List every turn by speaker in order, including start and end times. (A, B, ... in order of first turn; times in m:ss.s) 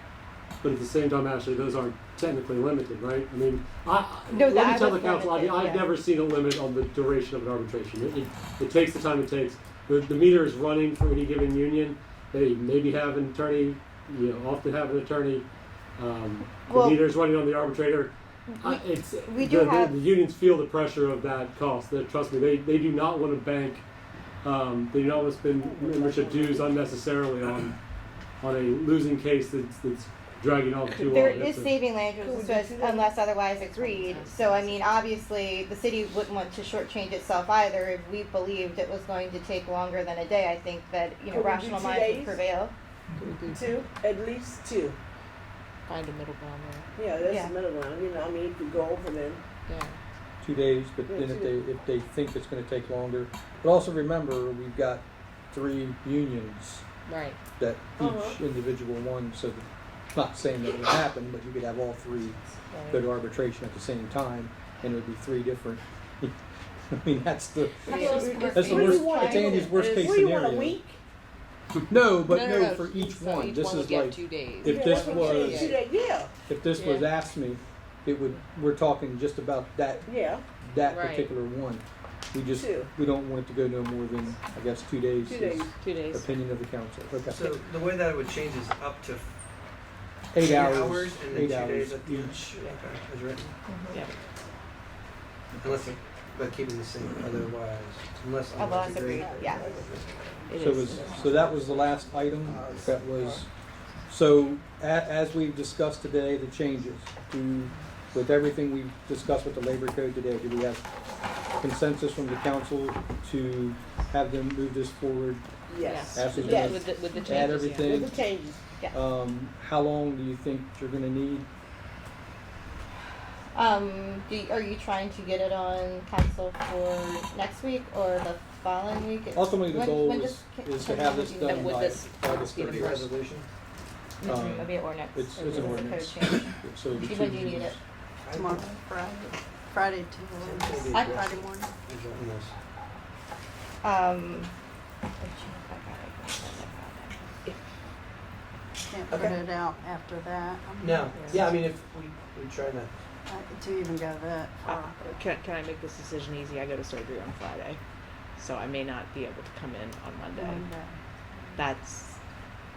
0:00.6-0:23.8 A
0:04.3-0:05.9 B
0:16.7-0:17.0 B
0:18.5-0:20.0 B
0:24.4-0:27.8 A
0:25.6-0:26.8 C
0:28.4-0:31.8 A
0:31.0-0:31.4 C
0:31.1-0:42.7 B
0:32.2-0:33.2 C
0:33.5-0:34.8 D
0:41.3-0:42.4 C
0:43.2-0:43.8 D
0:43.5-0:45.0 C
0:45.9-0:46.9 D
0:47.0-0:49.4 C
0:47.2-0:47.5 B
0:49.7-0:50.0 D
0:50.4-0:56.8 E
0:51.0-0:51.5 C
0:57.1-0:57.4 D
0:57.6-1:06.3 E
0:58.0-0:58.4 C
1:02.7-1:03.0 D
1:06.9-1:10.8 E
1:07.8-1:09.9 B
1:07.9-1:09.5 D
1:07.9-1:11.0 C
1:11.9-1:15.8 E
1:12.2-1:15.8 D
1:14.6-1:16.3 C
1:16.5-1:20.1 E
1:20.0-1:20.4 C
1:20.6-1:27.5 E
1:20.9-1:21.3 D
1:22.5-1:22.9 C
1:25.2-1:25.7 C
1:25.8-1:26.3 D
1:27.3-1:29.3 F
1:30.3-1:32.4 E
1:30.4-1:33.6 F
1:33.7-1:34.0 B
1:35.6-1:40.1 F
1:38.6-1:39.7 B
1:38.8-1:39.2 D
1:39.2-1:39.9 C
1:40.5-1:41.6 D
1:40.6-1:43.5 E
1:40.9-1:41.7 F
1:42.5-1:43.0 F
1:42.6-1:43.3 C
1:44.1-1:50.8 E
1:51.6-1:55.5 E
1:55.7-1:56.8 C
1:55.8-1:58.0 D
1:56.1-1:58.2 E
1:57.8-1:58.6 C
1:58.9-2:01.5 E
2:03.5-2:11.9 B
2:09.3-2:13.1 E
2:11.4-2:13.1 D
2:12.7-2:13.4 F
2:14.2-2:17.8 B
2:14.2-2:17.8 E
2:15.5-2:16.2 G
2:18.2-2:18.7 F
2:18.3-2:21.7 G
2:20.4-2:22.5 F
2:20.9-2:21.2 B
2:23.8-2:24.5 B
2:25.2-2:27.2 B
2:28.9-2:31.4 G
2:29.1-2:29.3 F
2:30.8-2:32.9 F
2:33.3-2:35.2 G
2:34.6-2:37.8 D
2:38.4-2:40.7 D
2:40.3-2:41.0 G
2:41.6-2:42.2 D